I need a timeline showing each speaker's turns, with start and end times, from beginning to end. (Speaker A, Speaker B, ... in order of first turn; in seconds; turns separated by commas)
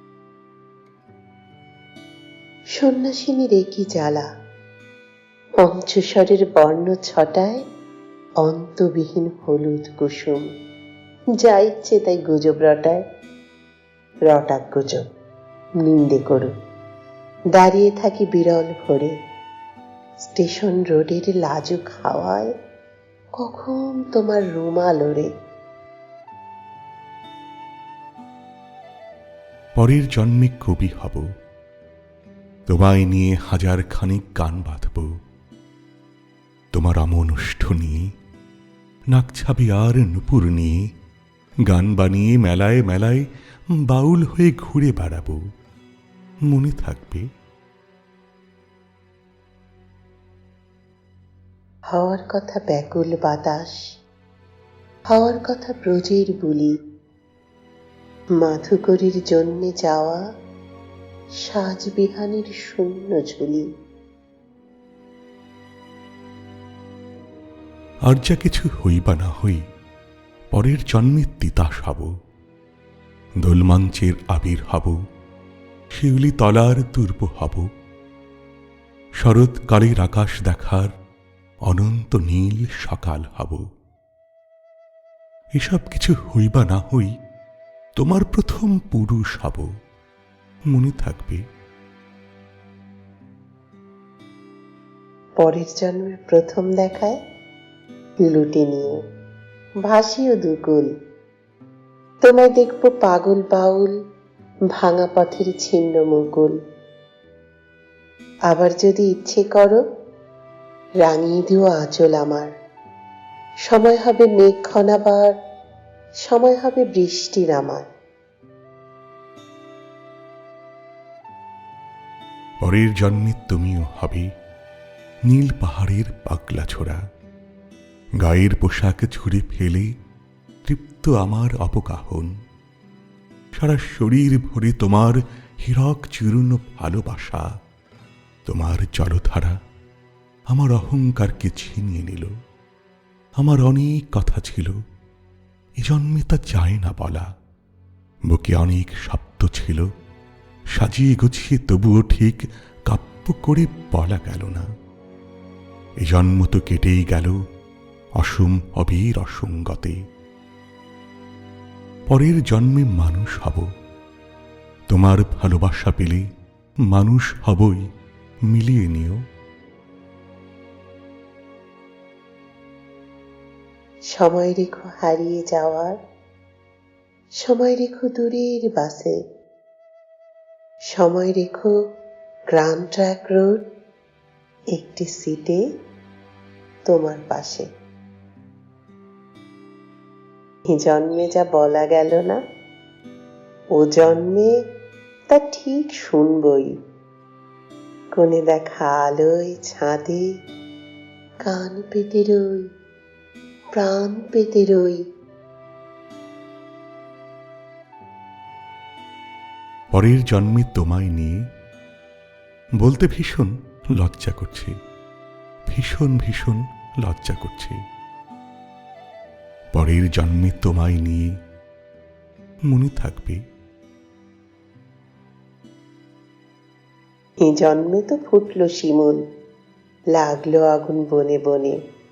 Speaker A: 2.8-4.3, Speaker A: 5.6-7.6, Speaker A: 8.4-10.4, Speaker A: 11.4-13.0, Speaker A: 14.3-15.0, Speaker A: 15.8-16.5, Speaker A: 17.5-19.1, Speaker A: 20.2-22.5, Speaker A: 23.4-25.3, Speaker B: 29.8-31.2, Speaker B: 32.7-35.1, Speaker B: 36.7-38.0, Speaker B: 39.1-40.8, Speaker B: 41.7-43.2, Speaker B: 43.8-45.4, Speaker B: 46.5-47.2, Speaker A: 51.9-53.8, Speaker A: 55.1-56.7, Speaker A: 58.4-60.2, Speaker A: 61.4-63.7, Speaker B: 68.0-69.6, Speaker B: 70.5-72.1, Speaker B: 73.4-75.0, Speaker B: 75.9-77.7, Speaker B: 79.2-80.9, Speaker B: 81.7-83.6, Speaker B: 85.6-87.1, Speaker B: 88.0-89.7, Speaker B: 90.7-91.4, Speaker A: 95.4-97.2, Speaker A: 98.2-99.0, Speaker A: 99.8-100.9, Speaker A: 102.2-103.9, Speaker A: 104.7-106.5, Speaker A: 108.5-109.8, Speaker A: 111.0-112.5, Speaker A: 113.7-115.3, Speaker A: 116.2-117.9, Speaker B: 122.6-124.3, Speaker B: 125.3-127.0, Speaker B: 128.2-129.9, Speaker B: 130.6-132.3, Speaker B: 133.6-137.4, Speaker B: 138.5-139.6, Speaker B: 140.5-142.3, Speaker B: 143.4-144.7, Speaker B: 145.8-147.2, Speaker B: 148.3-149.9, Speaker B: 150.7-154.7, Speaker B: 156.0-157.3, Speaker B: 158.2-160.0, Speaker B: 162.1-163.7, Speaker B: 164.9-166.2, Speaker B: 166.9-167.8, Speaker B: 168.5-169.2, Speaker A: 174.1-175.9, Speaker A: 177.4-179.2, Speaker A: 180.9-181.7, Speaker A: 182.5-183.6, Speaker A: 184.7-185.6, Speaker A: 186.9-187.7, Speaker A: 190.7-192.4, Speaker A: 193.7-194.5, Speaker A: 195.3-196.8, Speaker A: 198.1-200.2, Speaker A: 201.4-202.6, Speaker A: 203.7-205.0, Speaker B: 209.9-211.3, Speaker B: 212.8-214.7, Speaker B: 215.7-217.8, Speaker B: 219.7-221.3, Speaker B: 222.7-223.4, Speaker A: 227.4-229.2, Speaker A: 230.1-231.8